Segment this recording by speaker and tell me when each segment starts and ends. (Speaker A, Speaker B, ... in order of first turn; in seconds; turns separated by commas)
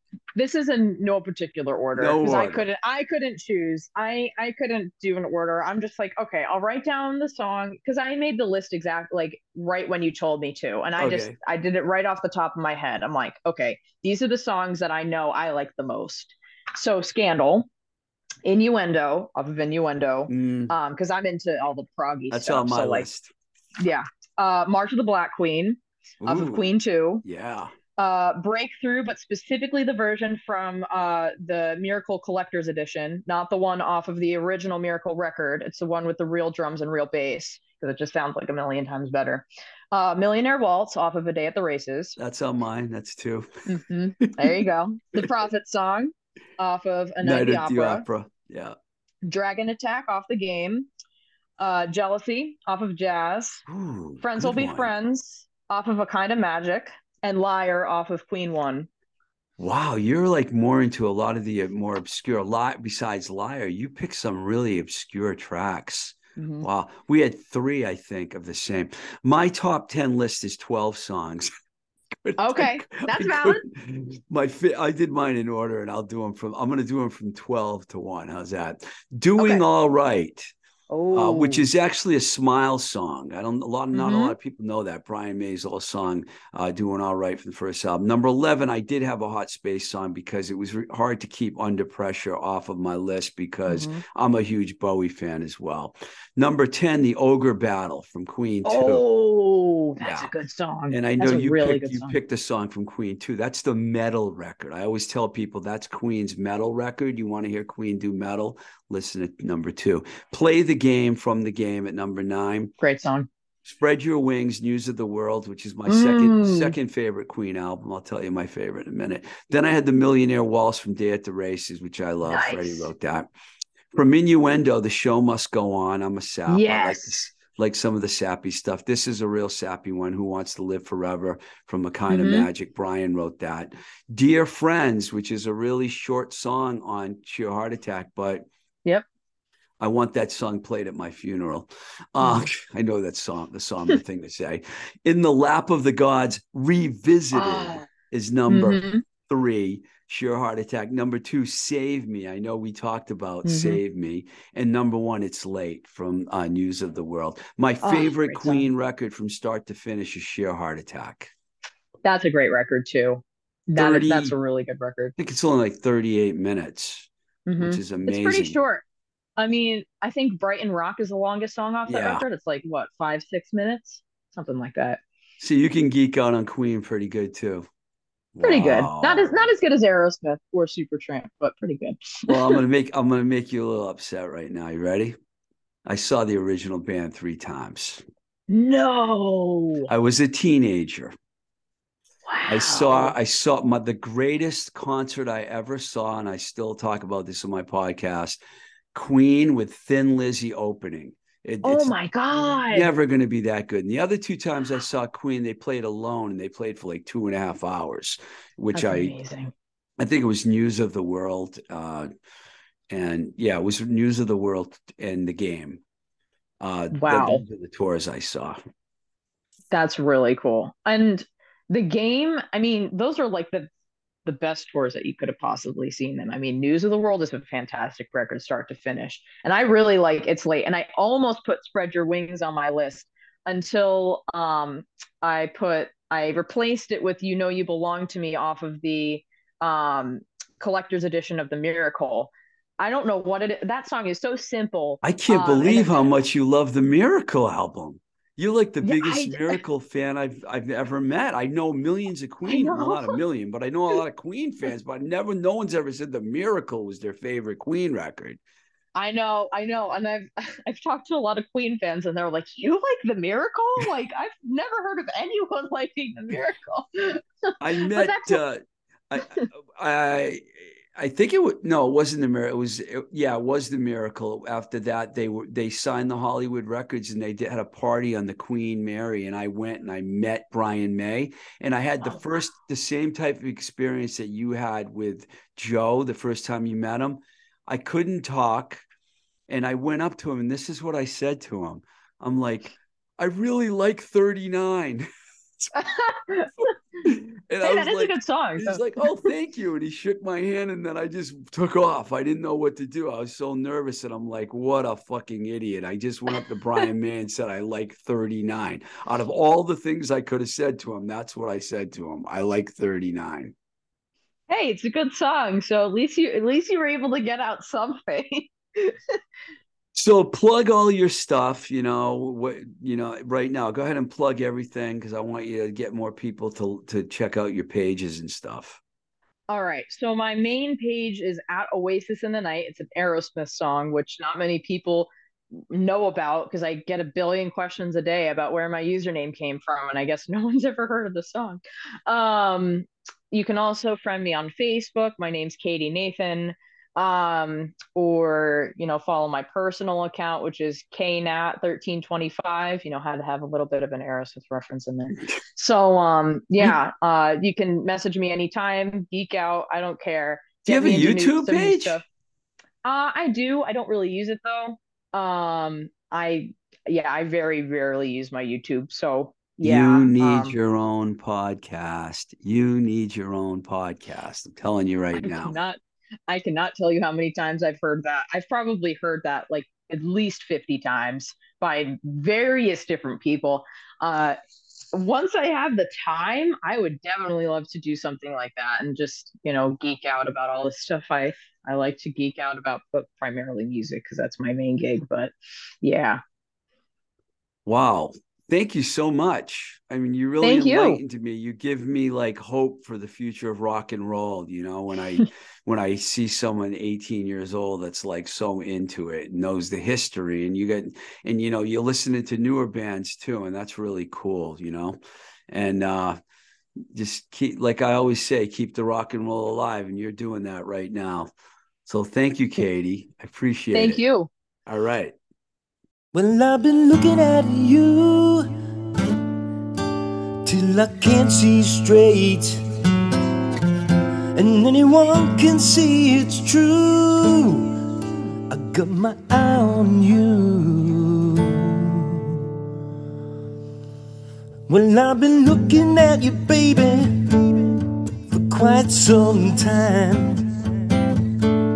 Speaker A: 0.3-17.7, Speaker B: 1.9-2.7, Speaker B: 11.0-11.4, Speaker A: 18.4-23.1, Speaker B: 20.3-20.7, Speaker B: 22.3-23.3, Speaker A: 23.8-27.2, Speaker B: 26.2-26.7, Speaker B: 27.2-27.7, Speaker A: 28.0-42.1, Speaker B: 42.2-43.5, Speaker A: 43.7-48.0, Speaker B: 44.2-44.5, Speaker B: 47.2-48.8, Speaker A: 49.2-50.9, Speaker A: 51.6-53.6, Speaker B: 53.7-54.9, Speaker A: 54.2-58.9, Speaker B: 59.6-71.5, Speaker A: 66.4-66.7, Speaker B: 72.1-80.5, Speaker A: 72.4-73.6, Speaker A: 79.4-79.6, Speaker A: 80.9-81.7, Speaker B: 81.1-99.0, Speaker A: 83.9-84.3, Speaker A: 93.7-94.0, Speaker A: 98.6-102.2, Speaker B: 100.0-100.3, Speaker B: 100.9-112.7, Speaker A: 112.8-113.3, Speaker B: 113.6-123.3, Speaker A: 115.9-116.7, Speaker A: 122.2-122.9, Speaker B: 123.9-138.4, Speaker A: 126.5-127.2, Speaker A: 132.1-132.5, Speaker B: 139.8-161.3, Speaker A: 142.2-142.5, Speaker A: 147.3-147.8, Speaker A: 148.5-149.0, Speaker A: 153.4-153.8, Speaker A: 157.8-158.7, Speaker A: 162.0-165.1, Speaker B: 163.8-164.3, Speaker B: 165.2-167.1, Speaker A: 167.4-168.8, Speaker B: 167.6-168.6, Speaker A: 169.4-175.0, Speaker B: 171.9-172.2, Speaker B: 175.4-177.7, Speaker B: 178.3-179.4, Speaker A: 178.4-182.6, Speaker B: 182.3-185.2, Speaker B: 185.8-188.0, Speaker A: 188.5-189.9, Speaker B: 189.9-191.1, Speaker A: 192.2-193.1, Speaker B: 192.5-198.4, Speaker B: 198.9-209.1, Speaker A: 201.6-202.9, Speaker A: 208.7-209.5, Speaker B: 210.0-212.1, Speaker B: 212.9-215.8, Speaker B: 216.6-218.6, Speaker A: 216.9-217.4, Speaker A: 219.7-223.7, Speaker A: 224.2-246.1, Speaker B: 245.0-258.4, Speaker A: 248.8-249.6, Speaker A: 252.4-253.2, Speaker A: 258.9-268.4, Speaker B: 267.6-288.8, Speaker B: 289.5-295.1, Speaker A: 295.7-296.7, Speaker B: 297.0-313.5, Speaker A: 297.6-299.0, Speaker A: 314.5-319.0, Speaker B: 319.9-328.8, Speaker A: 329.5-335.1, Speaker A: 335.7-362.0, Speaker B: 360.7-362.0, Speaker A: 362.8-370.6, Speaker B: 369.6-375.5, Speaker A: 375.2-384.4, Speaker A: 384.9-396.2, Speaker B: 397.6-415.0, Speaker A: 400.4-401.0, Speaker B: 415.5-416.2, Speaker B: 416.8-421.3, Speaker B: 421.9-424.0, Speaker A: 423.7-424.3, Speaker B: 424.7-425.1, Speaker C: 426.1-428.5, Speaker C: 430.4-432.6, Speaker C: 434.3-437.7, Speaker C: 438.5-442.3, Speaker C: 444.7-447.7, Speaker C: 448.3-450.5